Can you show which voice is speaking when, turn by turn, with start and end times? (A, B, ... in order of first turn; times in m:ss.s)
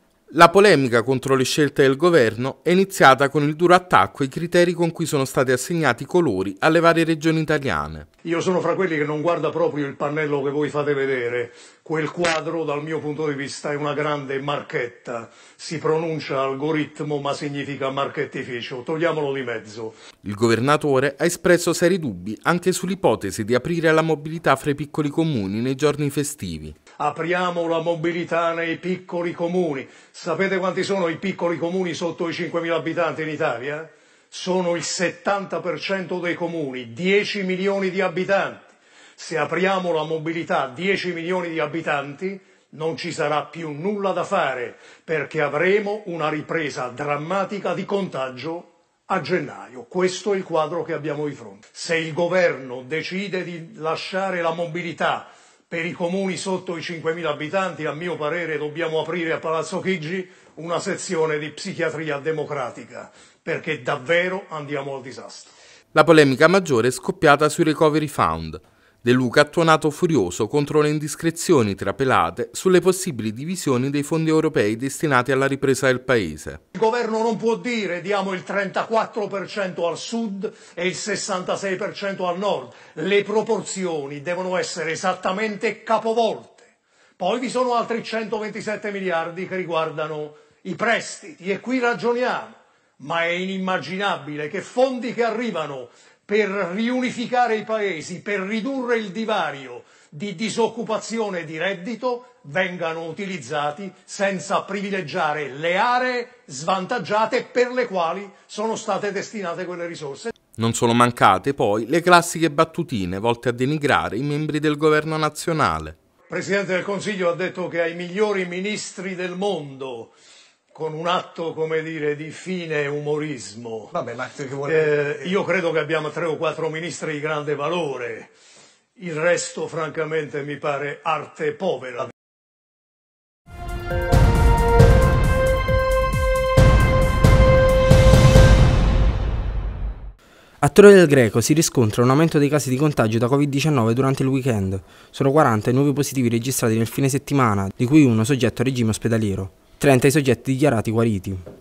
0:00.3-0:08.1 A
0:08.2-0:20.0 B
0:20.2-0:26.8 A
0:27.0-1:05.5 B
1:05.9-1:16.6 A
1:16.8-1:26.7 B
1:27.2-1:50.3 B
1:50.6-1:56.0 A
1:56.3-2:00.1 B
2:00.8-2:08.3 B
2:09.0-2:12.1 B
2:20.6-2:31.4 C